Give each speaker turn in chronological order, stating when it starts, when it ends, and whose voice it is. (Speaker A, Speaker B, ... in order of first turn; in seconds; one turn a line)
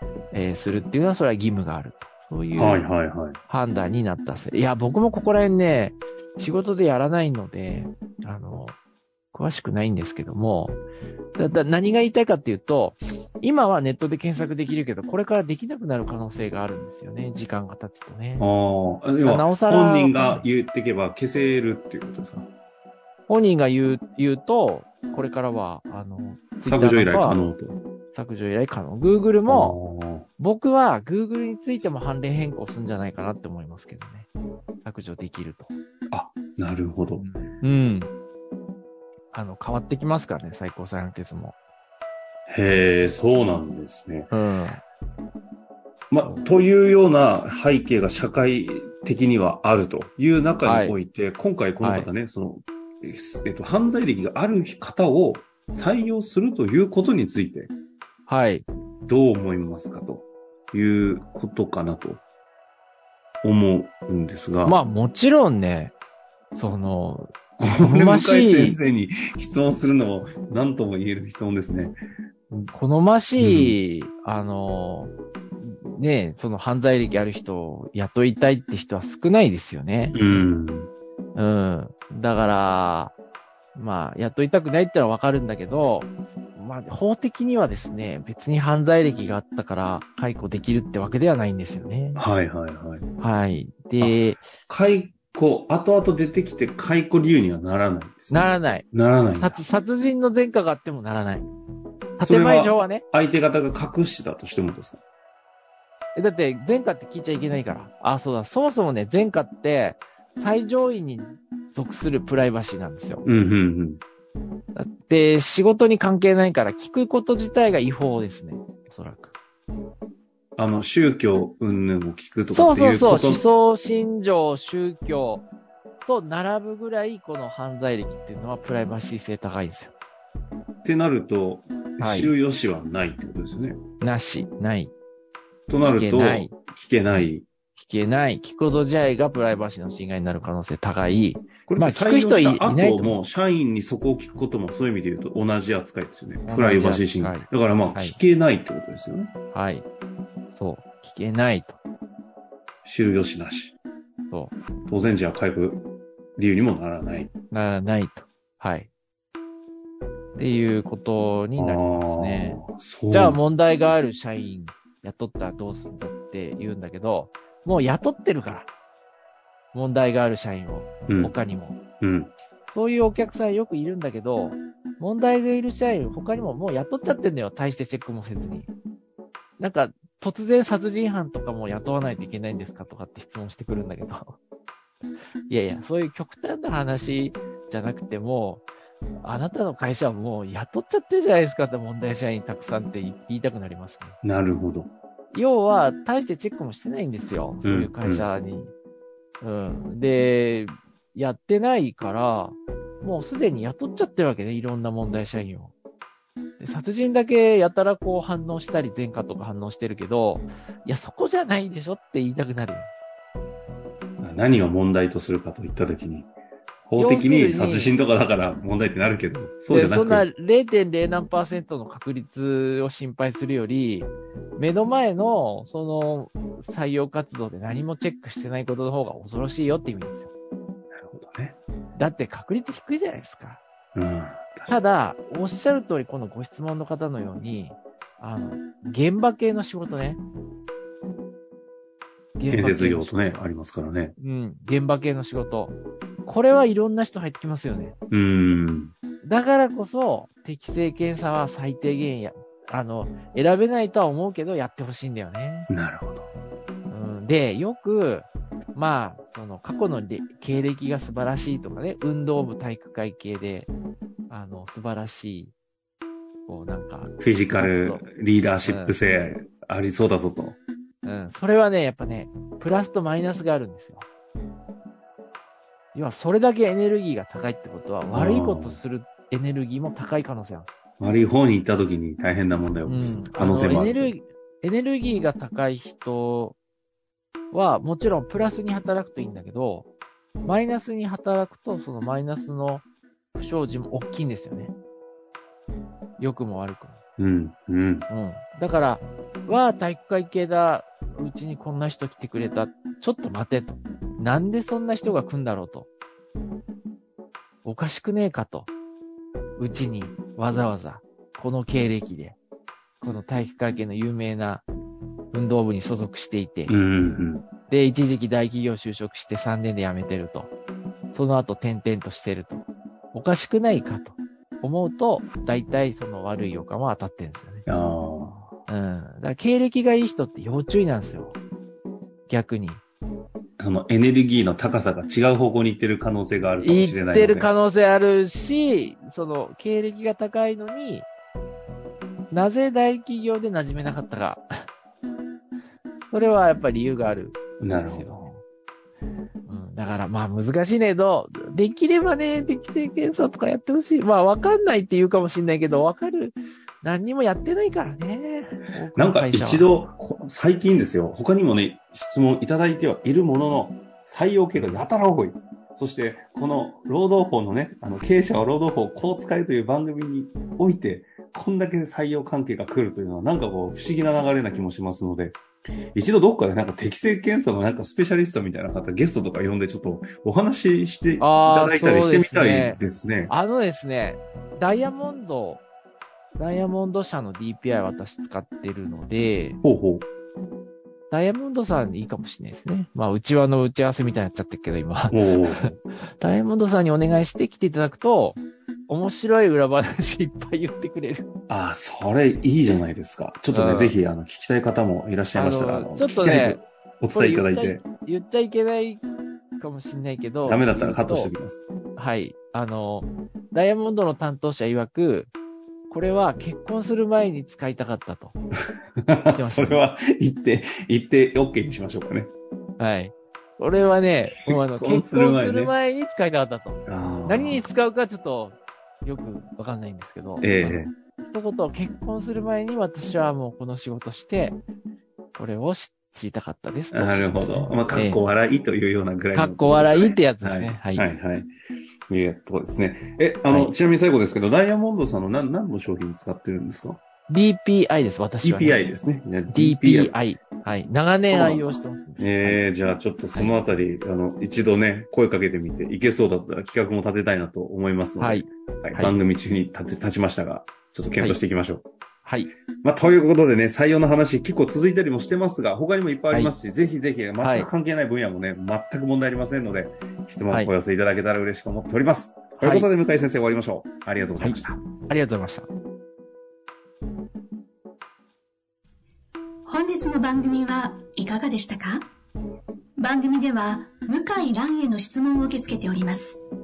Speaker A: 0.3-2.8
Speaker B: 2.6-3.4
Speaker A: 3.5-8.8
Speaker A: 9.3-10.8
Speaker A: 11.4-18.5
Speaker B: 18.4-22.5
Speaker A: 19.2-20.5
Speaker A: 23.3-27.4
Speaker B: 26.7-27.8
Speaker A: 28.1-29.8
Speaker B: 29.5-30.3
Speaker A: 30.4-34.3
Speaker A: 34.8-35.7
Speaker B: 36.1-37.2
Speaker A: 37.2-38.1
Speaker A: 39.3-41.6
Speaker B: 42.5-44.3
Speaker A: 44.3-44.8
Speaker B: 46.1-57.7
Speaker A: 46.2-46.5
Speaker A: 50.6-51.0
Speaker A: 51.8-52.1
Speaker A: 58.3-58.7
Speaker B: 59.1-62.2
Speaker B: 63.4-64.8
Speaker A: 64.7-66.0
Speaker A: 66.5-68.8
Speaker B: 67.6-72.0
Speaker A: 72.5-80.4
Speaker B: 73.4-73.8
Speaker B: 80.1-80.9
Speaker A: 81.3-83.2
Speaker A: 83.8-92.2
Speaker B: 92.2-93.1
Speaker A: 93.2-94.5
Speaker B: 94.0-99.6
Speaker A: 98.3-101.5
Speaker A: 102.2-103.0
Speaker B: 102.2-105.0
Speaker A: 106.2-113.2
Speaker B: 113.2-114.0
Speaker A: 114.8-119.3
Speaker B: 120.6-123.4
Speaker A: 122.5-125.5
Speaker A: 126.1-129.9
Speaker B: 130.8-133.8
Speaker A: 132.0-132.3
Speaker A: 134.0-134.9
Speaker B: 135.7-137.5
Speaker A: 135.8-136.5
Speaker A: 137.8-143.2
Speaker B: 141.7-149.3
Speaker A: 146.4-148.2
Speaker A: 149.5-149.9
Speaker A: 150.5-151.8
Speaker B: 152.8-153.8
Speaker B: 154.9-155.8
Speaker B: 156.4-157.3
Speaker A: 157.5-158.9
Speaker A: 160.4-168.7
Speaker B: 161.6-163.4
Speaker A: 169.7-171.8
Speaker B: 171.1-171.3
Speaker B: 172.0-172.3
Speaker A: 172.7-178.7
Speaker A: 179.6-184.4
Speaker A: 185.5-188.7
Speaker A: 189.2-194.2
Speaker B: 194.2-194.9
Speaker A: 195.3-198.7
Speaker B: 197.6-198.3
Speaker A: 199.4-205.7
Speaker A: 206.6-212.9
Speaker B: 214.2-216.3
Speaker B: 216.9-220.3
Speaker A: 217.0-217.9
Speaker A: 219.7-230.3
Speaker B: 231.0-231.6
Speaker A: 232.0-233.6
Speaker B: 233.9-234.8
Speaker A: 234.7-240.2
Speaker A: 242.4-243.4
Speaker B: 242.5-244.1
Speaker A: 244.2-248.0
Speaker B: 248.1-248.9
Speaker A: 249.2-255.7
Speaker B: 255.7-256.3
Speaker A: 256.9-263.7
Speaker A: 264.3-265.5
Speaker A: 266.5-268.1
Speaker B: 267.2-270.6
Speaker A: 268.6-269.3
Speaker A: 271.0-274.1
Speaker A: 275.9-280.8
Speaker B: 278.1-278.8
Speaker B: 281.0-284.1
Speaker A: 282.9-286.6
Speaker A: 287.5-289.9
Speaker A: 290.4-294.7
Speaker A: 296.2-297.0
Speaker B: 297.2-298.1
Speaker A: 298.1-305.9
Speaker A: 307.6-308.7
Speaker A: 309.6-312.4
Speaker A: 313.0-314.6
Speaker A: 315.3-316.7
Speaker B: 316.7-317.5
Speaker A: 317.7-320.5
Speaker A: 321.1-327.7
Speaker B: 327.7-328.5
Speaker A: 328.7-331.4
Speaker A: 332.3-332.8
Speaker B: 333.6-337.5
Speaker A: 336.6-341.1
Speaker A: 342.3-344.5
Speaker A: 346.1-348.4
Speaker B: 347.6-348.2
Speaker A: 349.5-359.8
Speaker B: 359.0-375.4
Speaker B: 375.9-383.3
Speaker A: 381.2-385.6
Speaker A: 386.4-389.6
Speaker B: 389.6-390.1
Speaker A: 391.1-395.7
Speaker B: 395.1-395.7
Speaker A: 396.2-401.3
Speaker B: 401.5-407.8
Speaker A: 403.5-404.0
Speaker A: 405.3-406.6
Speaker A: 407.1-409.0
Speaker A: 409.6-411.3
Speaker B: 410.4-411.6
Speaker A: 412.0-415.3
Speaker A: 415.9-418.4
Speaker B: 419.0-422.3
Speaker A: 419.3-419.9
Speaker A: 422.8-434.6
Speaker B: 424.4-425.7
Speaker B: 426.9-427.6
Speaker B: 430.4-430.9
Speaker A: 435.4-438.2
Speaker B: 436.9-441.5
Speaker A: 439.4-441.1
Speaker B: 442.1-447.0
Speaker A: 447.3-448.9
Speaker B: 448.4-450.2
Speaker A: 449.5-452.6
Speaker B: 451.3-461.9
Speaker A: 458.2-459.2
Speaker A: 462.2-462.5
Speaker B: 462.8-474.8
Speaker A: 467.4-467.7
Speaker A: 472.6-472.9
Speaker A: 474.4-475.7
Speaker C: 479.7-482.1
Speaker C: 483.0-486.4